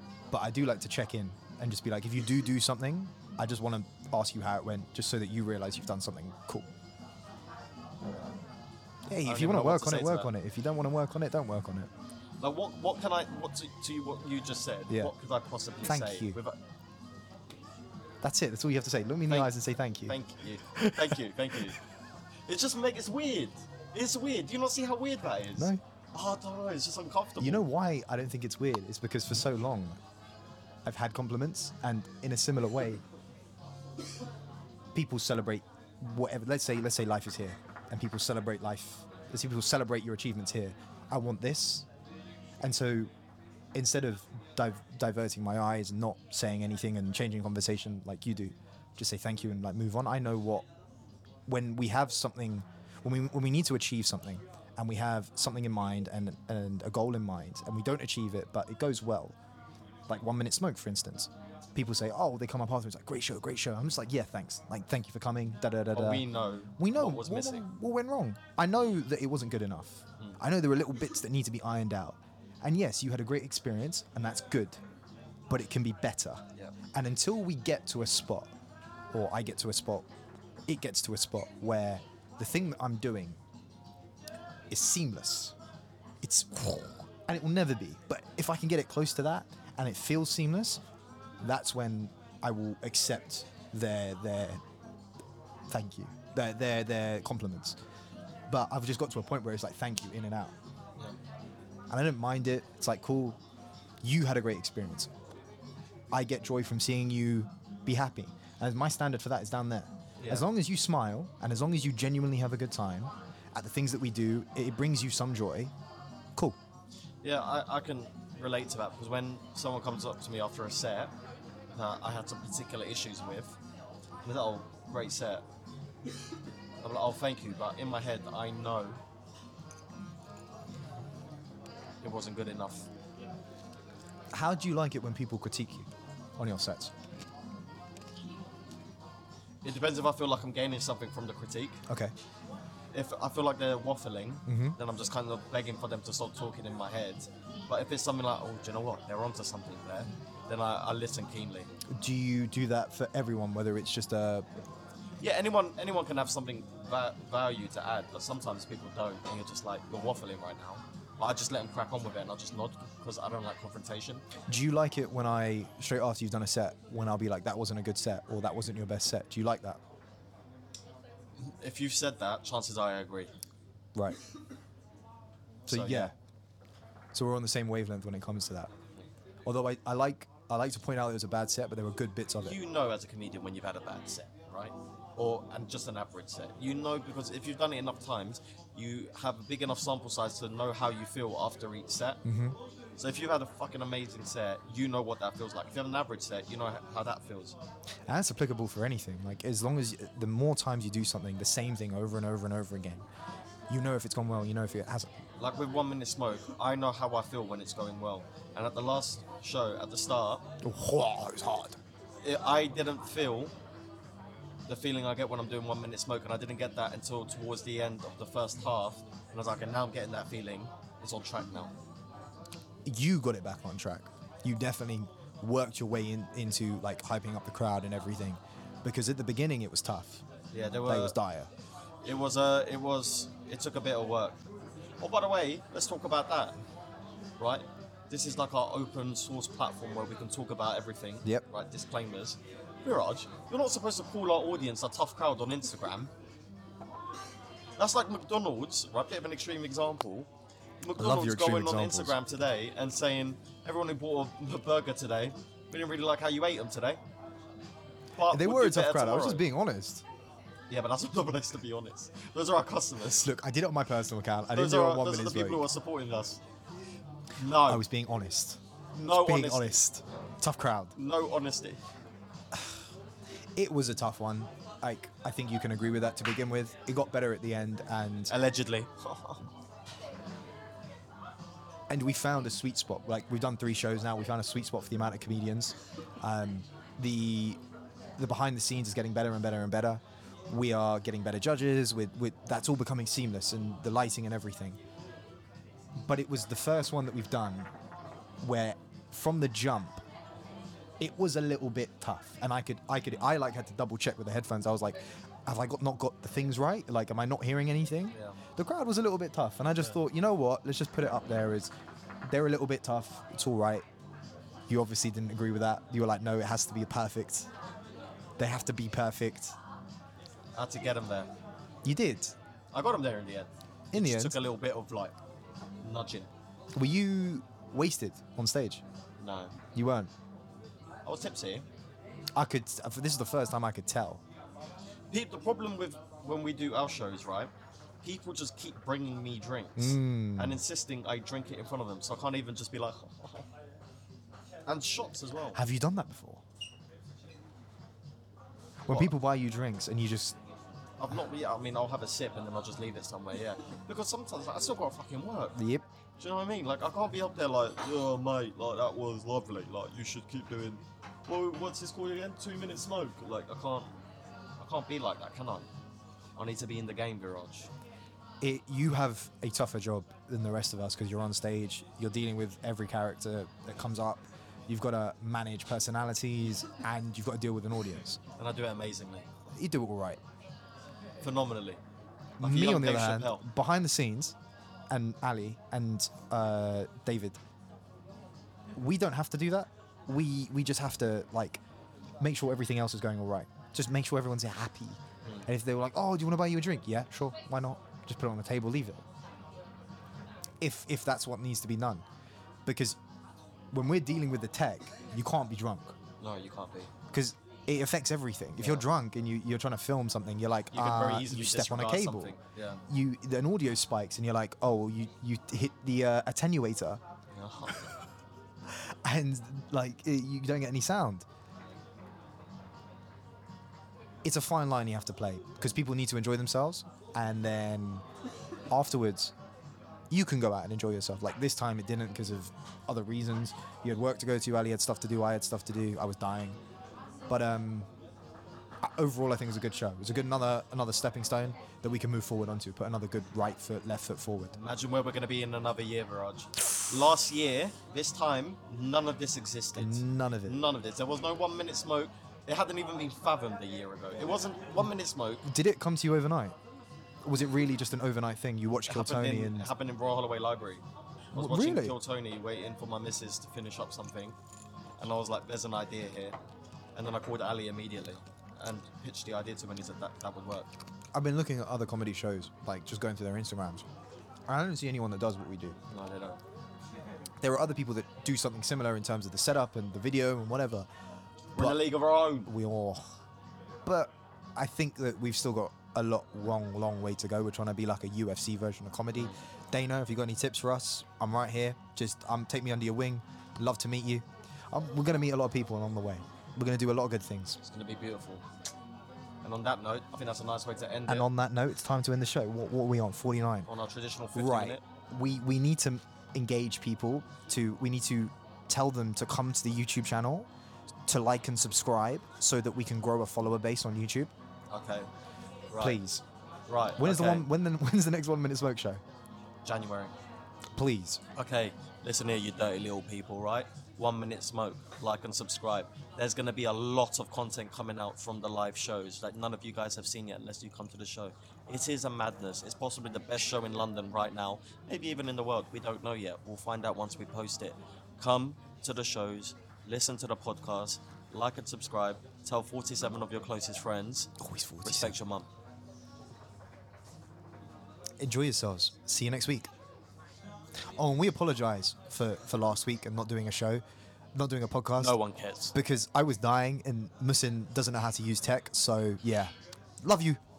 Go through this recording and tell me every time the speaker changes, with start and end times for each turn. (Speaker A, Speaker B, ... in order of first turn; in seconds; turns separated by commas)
Speaker A: 0.3-6.7, Speaker A: 9.1-11.9, Speaker B: 9.2-10.3, Speaker B: 12.4-16.6, Speaker A: 15.8-16.4, Speaker A: 18.2-20.2, Speaker B: 20.1-21.8, Speaker A: 20.7-21.2, Speaker B: 22.5-27.7, Speaker A: 27.4-30.0, Speaker A: 30.9-33.0, Speaker A: 34.9-41.9, Speaker A: 42.6-43.1, Speaker A: 43.7-50.7, Speaker A: 51.5-59.4, Speaker A: 60.1-66.3, Speaker B: 65.9-67.7, Speaker A: 66.8-74.8, Speaker A: 75.5-76.4, Speaker A: 76.9-78.5, Speaker A: 79.1-80.1, Speaker A: 80.7-83.4, Speaker A: 84.7-85.5, Speaker A: 86.2-90.8, Speaker A: 91.4-94.6, Speaker A: 95.7-97.8, Speaker A: 98.5-100.5, Speaker A: 101.9-103.4, Speaker A: 104.0-105.1, Speaker A: 106.1-115.7, Speaker B: 110.2-110.5, Speaker B: 117.2-121.1, Speaker B: 121.7-123.6, Speaker B: 124.2-125.5, Speaker B: 126.8-129.0, Speaker B: 132.0-132.9, Speaker A: 134.3-136.9, Speaker B: 139.6-141.8, Speaker A: 141.9-142.1, Speaker B: 142.9-151.7, Speaker A: 144.5-144.8, Speaker A: 151.9-154.5, Speaker B: 155.2-164.2, Speaker A: 164.5-169.8, Speaker B: 171.4-173.3, Speaker A: 175.7-176.1, Speaker B: 175.7-176.1, Speaker A: 177.1-178.7, Speaker A: 179.4-182.6, Speaker B: 182.4-192.2, Speaker A: 192.2-192.6, Speaker B: 193.0-197.6, Speaker A: 198.1-203.1, Speaker A: 203.7-205.2, Speaker B: 205.4-210.4, Speaker A: 210.6-211.8, Speaker B: 212.2-213.5, Speaker B: 214.7-221.7, Speaker A: 222.8-230.2, Speaker B: 230.5-231.2, Speaker A: 230.9-231.5, Speaker B: 232.0-234.4, Speaker B: 235.0-236.6, Speaker B: 237.4-246.1, Speaker B: 247.8-250.3, Speaker B: 250.8-257.0, Speaker A: 251.0-252.2, Speaker B: 258.2-259.4, Speaker A: 258.3-260.0, Speaker B: 260.7-263.3, Speaker A: 263.2-265.6, Speaker B: 264.5-266.4, Speaker B: 267.4-267.8, Speaker A: 267.6-270.9, Speaker B: 269.0-269.8, Speaker B: 271.0-271.8, Speaker A: 273.6-278.3, Speaker B: 278.3-279.4, Speaker A: 281.9-287.6, Speaker A: 288.2-294.8, Speaker A: 296.0-297.7, Speaker A: 298.4-300.0, Speaker A: 301.0-311.7, Speaker B: 308.1-308.4, Speaker A: 312.3-313.9, Speaker A: 314.7-317.5, Speaker A: 318.4-319.6, Speaker B: 320.6-321.3, Speaker A: 321.9-322.4, Speaker B: 322.7-325.1, Speaker A: 323.9-324.4, Speaker B: 325.8-326.3, Speaker A: 326.8-328.8, Speaker B: 329.2-329.5, Speaker A: 329.8-330.1, Speaker B: 331.1-331.6, Speaker A: 332.4-334.2, Speaker B: 335.1-337.5, Speaker B: 338.0-343.4, Speaker A: 339.8-340.6, Speaker B: 344.7-345.6, Speaker A: 345.6-346.4, Speaker A: 348.9-350.4, Speaker B: 351.0-355.6, Speaker A: 355.6-355.9, Speaker B: 356.2-363.9, Speaker B: 364.6-365.7, Speaker B: 366.4-367.7, Speaker A: 368.4-378.2, Speaker B: 378.4-379.3, Speaker A: 379.6-380.2, Speaker B: 381.2-381.8, Speaker B: 382.4-383.4, Speaker A: 382.4-384.4, Speaker A: 384.9-387.4, Speaker A: 388.8-391.6, Speaker A: 392.2-399.0, Speaker A: 400.6-402.0, Speaker A: 402.7-403.0, Speaker A: 403.7-406.0, Speaker B: 406.2-406.9, Speaker A: 407.1-412.4, Speaker B: 408.6-408.9, Speaker B: 410.7-412.8, Speaker A: 412.9-417.0, Speaker B: 417.3-418.0, Speaker A: 418.7-421.3, Speaker A: 424.2-428.1, Speaker A: 428.7-429.3, Speaker A: 430.1-436.6, Speaker A: 437.3-437.9, Speaker A: 438.8-444.6, Speaker B: 444.6-455.5, Speaker A: 449.8-450.6, Speaker A: 455.4-456.6, Speaker A: 457.2-459.7, Speaker B: 458.9-464.4, Speaker A: 461.4-462.0, Speaker B: 465.0-466.4, Speaker B: 467.0-470.7, Speaker A: 471.1-473.9, Speaker A: 474.5-475.8, Speaker B: 475.9-476.4, Speaker A: 477.4-480.9, Speaker B: 481.5-482.5, Speaker A: 481.6-481.8, Speaker A: 482.5-483.1, Speaker A: 483.9-497.6, Speaker B: 497.6-498.4, Speaker B: 499.4-501.3, Speaker A: 501.1-503.7, Speaker B: 503.7-504.8, Speaker A: 504.4-510.5, Speaker A: 511.1-514.3, Speaker B: 514.7-515.1, Speaker B: 515.7-516.0, Speaker A: 515.8-516.2, Speaker B: 516.7-517.5, Speaker A: 517.0-519.0, Speaker B: 519.6-520.1, Speaker A: 520.8-521.2, Speaker B: 521.4-544.3, Speaker A: 544.4-545.2, Speaker B: 544.8-545.5, Speaker A: 548.2-549.7, Speaker A: 551.0-553.8, Speaker A: 554.3-555.2, Speaker B: 555.0-555.8, Speaker A: 555.7-560.4